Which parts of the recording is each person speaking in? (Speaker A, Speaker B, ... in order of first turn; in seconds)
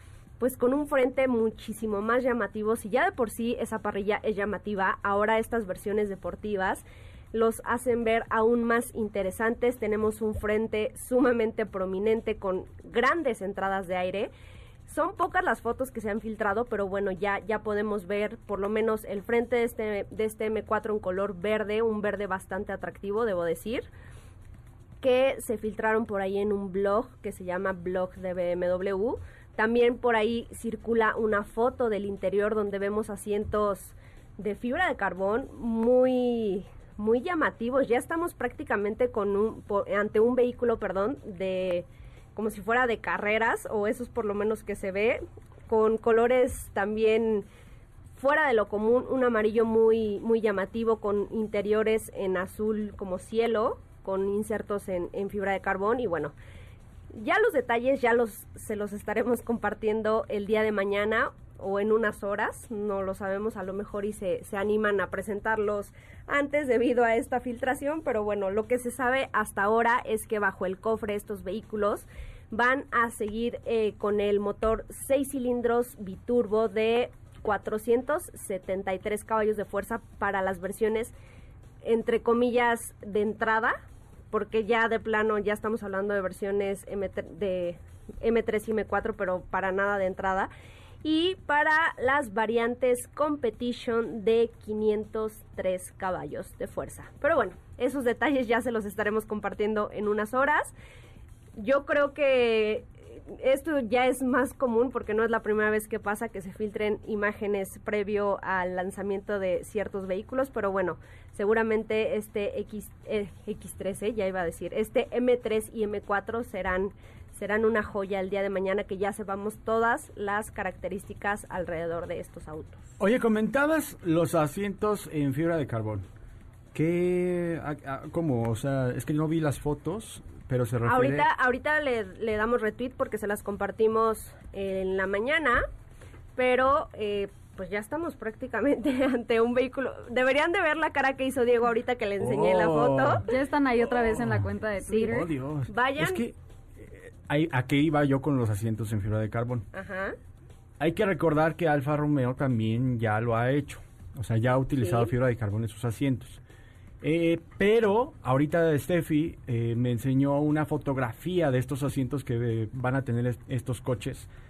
Speaker A: 0.4-14.3, 14.9-23.9, 25.0-47.5, 48.1-56.3, 57.1-81.1, 81.8-83.8, 84.3-90.5, 91.0-100.7, 101.5-122.8, 130.8-135.6, 136.3-143.2, 144.8-146.2, 149.7-150.2, 154.8-155.1
Speaker B: 123.0-126.0, 126.7-131.2, 142.2-143.2, 145.1-149.7, 150.8-156.4, 157.0-164.3
Speaker C: 143.2-145.3